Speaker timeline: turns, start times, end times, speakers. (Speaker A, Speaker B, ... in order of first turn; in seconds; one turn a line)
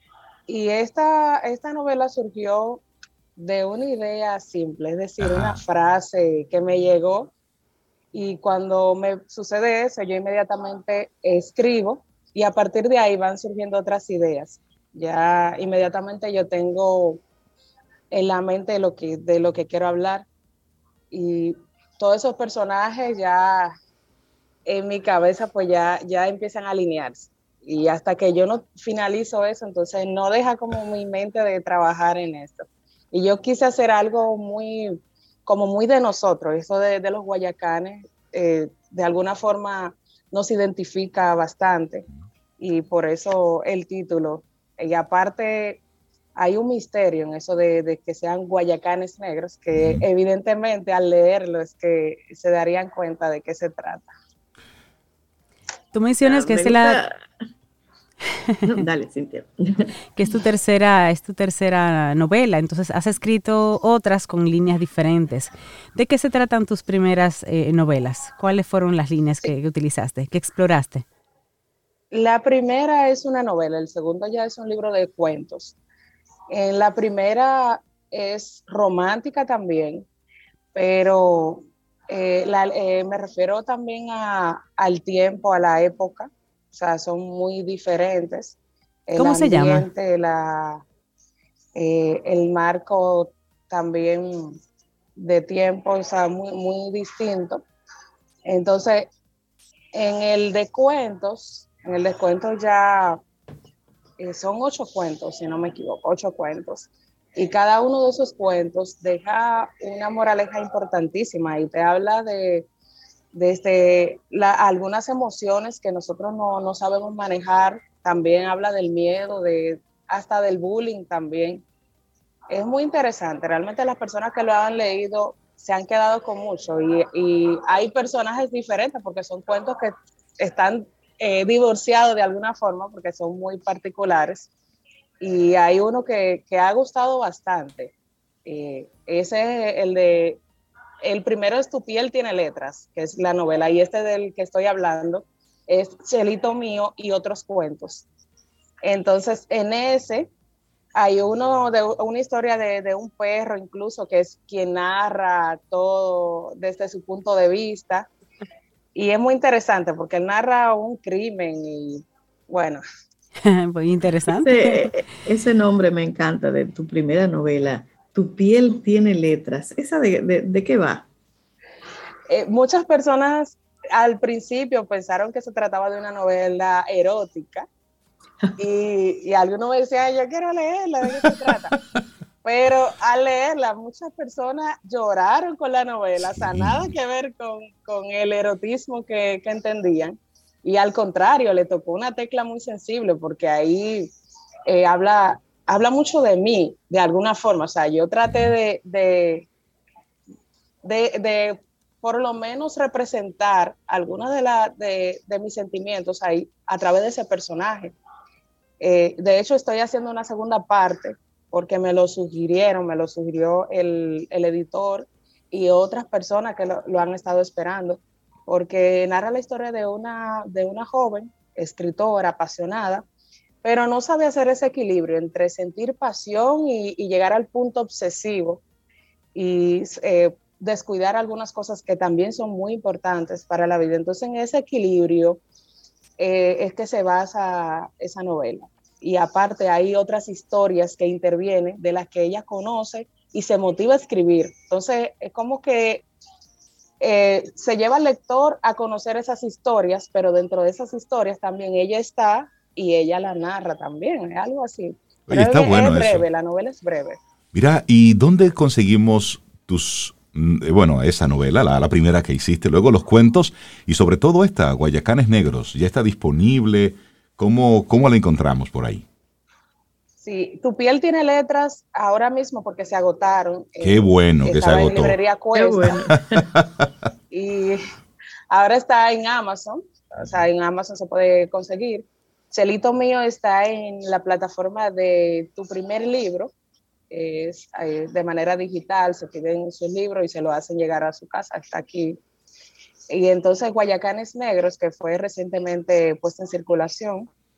Speaker A: 0.5-2.8
Speaker A: 3.4-7.3
Speaker B: 5.2-5.6
Speaker A: 8.1-17.2
Speaker A: 18.1-20.3
Speaker A: 21.1-23.8
Speaker A: 24.7-42.1
Speaker A: 42.6-45.8
Speaker A: 46.4-54.1
Speaker B: 49.8-50.1
Speaker C: 55.9-57.0
Speaker D: 56.2-57.2
Speaker D: 58.6-59.9
Speaker C: 60.1-71.0
Speaker A: 72.1-75.8
Speaker A: 76.5-80.1
Speaker A: 80.8-90.8
Speaker C: 89.2-89.9
Speaker A: 91.8-94.6
Speaker A: 95.2-97.6
Speaker A: 98.5-99.1
Speaker A: 99.9-103.2
Speaker A: 104.2-112.7
Speaker A: 113.3-121.6
Speaker A: 122.5-134.5
Speaker A: 135.2-137.9
Speaker A: 138.5-140.4
Speaker A: 141.0-148.1
Speaker A: 148.8-150.3
Speaker A: 151.0-158.1
Speaker A: 158.9-162.8
Speaker C: 163.4-164.9
Speaker D: 164.4-171.1
Speaker A: 172.3-177.7
Speaker A: 178.6-181.8
Speaker A: 182.4-194.1
Speaker B: 186.2-186.9
Speaker A: 194.7-199.5
Speaker A: 200.8-207.9
Speaker A: 208.8-223.0
Speaker A: 223.6-228.6
Speaker A: 229.3-235.4
Speaker A: 236.2-246.1
Speaker A: 247.0-257.2
Speaker B: 255.3-256.3
Speaker B: 257.5-269.1
Speaker A: 270.2-275.9
Speaker B: 273.8-275.2
Speaker D: 275.5-276.5
Speaker B: 275.9-276.9
Speaker A: 277.3-277.8
Speaker A: 278.5-286.5
Speaker A: 287.1-292.2
Speaker A: 293.1-297.3